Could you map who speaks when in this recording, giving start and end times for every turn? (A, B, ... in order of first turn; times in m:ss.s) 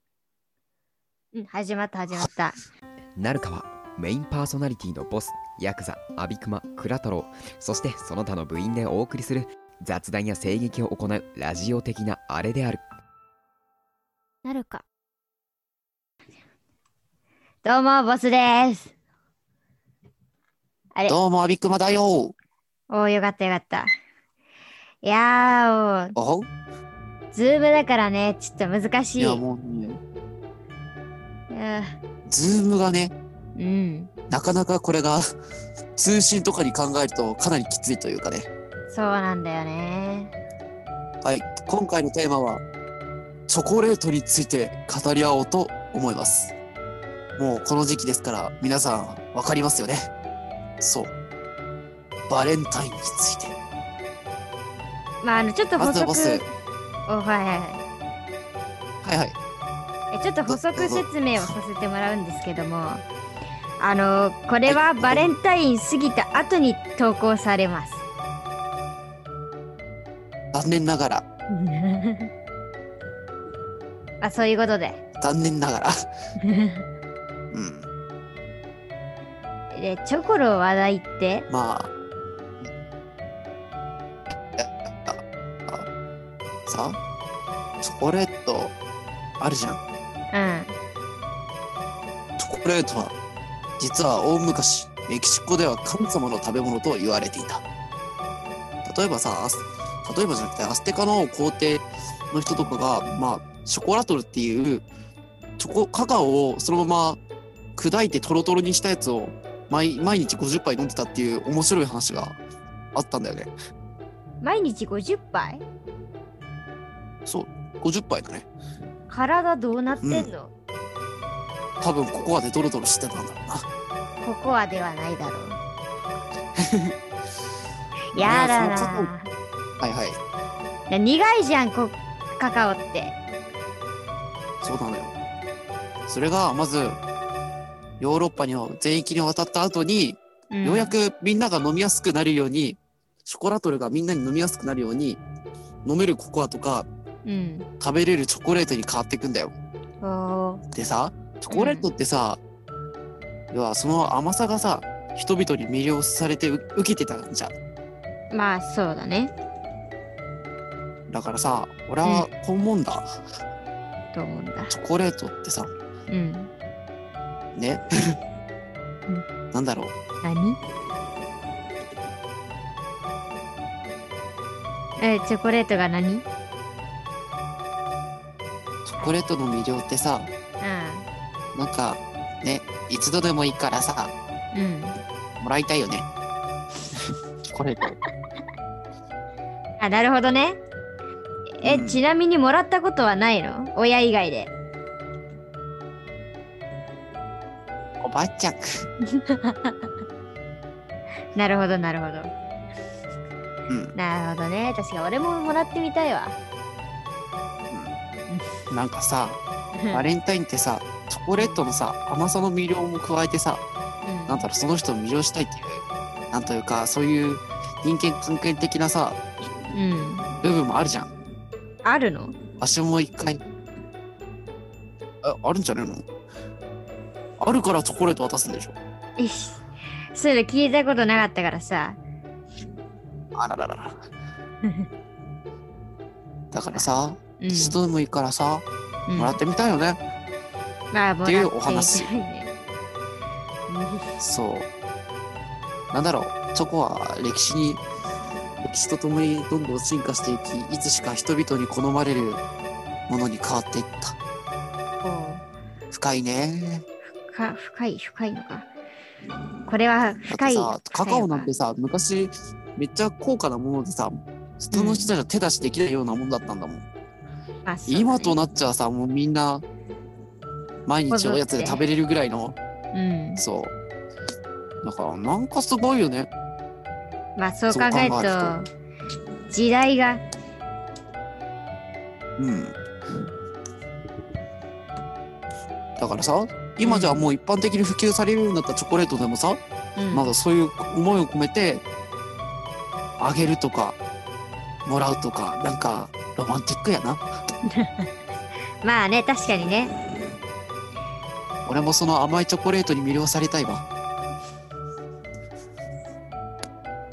0:01.3-0:02.6 A
0:03.2-0:12.8 B
0:14.4-0:14.8 A
0:17.6-0:18.9 A
0:21.1-0:22.3 C
0:22.9-0:23.9 A
0:25.0-0:26.2 A
0:26.2-0:26.5 C
0:27.3-0:29.4 A
0:29.2-0:30.0 C
0:31.5-0:32.0 A
0:32.3-0:33.1 C
0:33.6-0:34.1 A
0:34.3-0:35.2 C
0:36.0-0:38.5 C
0:38.9-0:40.3 A
0:41.2-0:42.6 C
0:43.5-0:46.5 C
0:47.4-0:50.1 C
0:50.8-0:51.1 C
0:52.3-0:53.6 C
0:55.2-0:56.4 A
0:55.8-0:56.4 C
0:57.1-0:57.8 A
0:59.0-0:59.4 C
1:00.1-1:03.0 A
1:00.5-1:01.5 C
1:03.8-1:08.0 A
1:04.6-1:05.3 C
1:10.5-1:11.2 C
1:11.5-1:12.3 A
1:14.2-1:15.0 A
1:15.2-1:15.9 C
1:16.4-1:16.8 A
1:17.5-1:17.9 C
1:19.7-1:21.5 A
1:21.5-1:21.9 C
1:24.6-1:25.9 C
1:26.6-1:27.0 C
1:27.8-1:28.7 C
1:29.4-1:29.8 C
1:30.3-1:30.7 A
1:32.4-1:33.2 C
1:33.8-1:37.6 C
1:38.8-1:44.9 C
1:45.6-1:47.2 C
1:47.8-1:52.4 C
1:52.9-1:53.5 C
1:54.4-1:55.6 A
1:57.2-1:58.5 C
1:59.1-2:00.5 A
2:00.0-2:00.3 C
2:01.8-2:03.6 C
2:04.2-2:05.6 A
2:06.6-2:06.9 C
2:08.1-2:09.3 A
2:08.2-2:09.1 C
2:09.8-2:10.2 C
2:10.9-2:13.2 A
2:14.6-2:15.1 C
2:16.1-2:17.0 C
2:18.0-2:25.2 C
2:20.5-2:20.9 A
2:25.8-2:26.9 C
2:27.2-2:27.7 A
2:27.8-2:29.5 C
2:30.0-2:30.6 A
2:30.7-2:32.4 C
2:31.5-2:31.9 A
2:33.5-2:37.5 C
2:38.3-2:39.3 A
2:41.1-2:43.1 C
2:42.0-2:42.3 A
2:44.1-2:44.7 A
2:44.7-2:45.7 C
2:46.1-2:46.5 A
2:47.6-2:47.8 C
2:49.5-2:49.9 C
2:50.2-2:50.6 A
2:55.0-2:56.2 A
2:58.9-3:00.3 C
3:00.6-3:01.1 A
3:01.5-3:04.1 C
3:04.5-3:05.0 A
3:05.4-3:06.1 C
3:07.5-3:08.0 C
3:09.8-3:10.6 A
3:11.6-3:14.5 A
3:11.6-3:12.0 C
3:18.0-3:18.6 C
3:19.1-3:19.8 A
3:21.3-3:22.3 A
3:23.7-3:23.9 C
3:24.0-3:26.4 A
3:28.7-3:29.4 C
3:29.7-3:30.1 A
3:29.9-3:33.6 C
3:31.4-3:31.6 A
3:34.0-3:34.5 A
3:34.3-3:39.2 C
3:39.7-3:40.3 A
3:40.4-3:41.1 C
3:41.8-3:42.3 A
3:42.6-3:43.4 C
3:45.2-3:46.0 C
3:47.4-3:48.8 C
3:49.2-3:49.6 A
3:50.1-3:52.0 A
3:53.4-3:54.0 C
3:56.5-4:00.0 C
3:57.4-3:57.8 A
3:59.1-3:59.4 A
4:00.9-4:02.5 A
4:01.2-4:02.1 C
4:03.7-4:04.1 A
4:04.2-4:04.7 C
4:05.9-4:07.8 C
4:08.6-4:12.4 C
4:13.1-4:14.1 C
4:15.0-4:15.4 A
4:15.9-4:16.8 C
4:17.3-4:18.7 A
4:19.7-4:21.5 A
4:20.3-4:26.8 C
4:24.7-4:25.1 A
4:27.6-4:28.4 A
4:27.9-4:29.6 C
4:30.8-4:32.6 C
4:31.1-4:31.8 A
4:32.9-4:33.4 A
4:33.4-4:33.7 C
4:34.8-4:36.3 C
4:37.4-4:38.7 A
4:37.7-4:38.6 C
4:39.5-4:40.2 A
4:42.4-4:42.8 C
4:46.0-4:49.6 C
4:46.8-4:47.3 A
4:50.0-4:50.3 A
4:50.1-4:51.8 C
4:53.2-4:54.0 C
4:54.8-4:57.2 C
4:57.7-4:58.1 A
4:58.8-4:59.9 A
5:01.6-5:03.8 C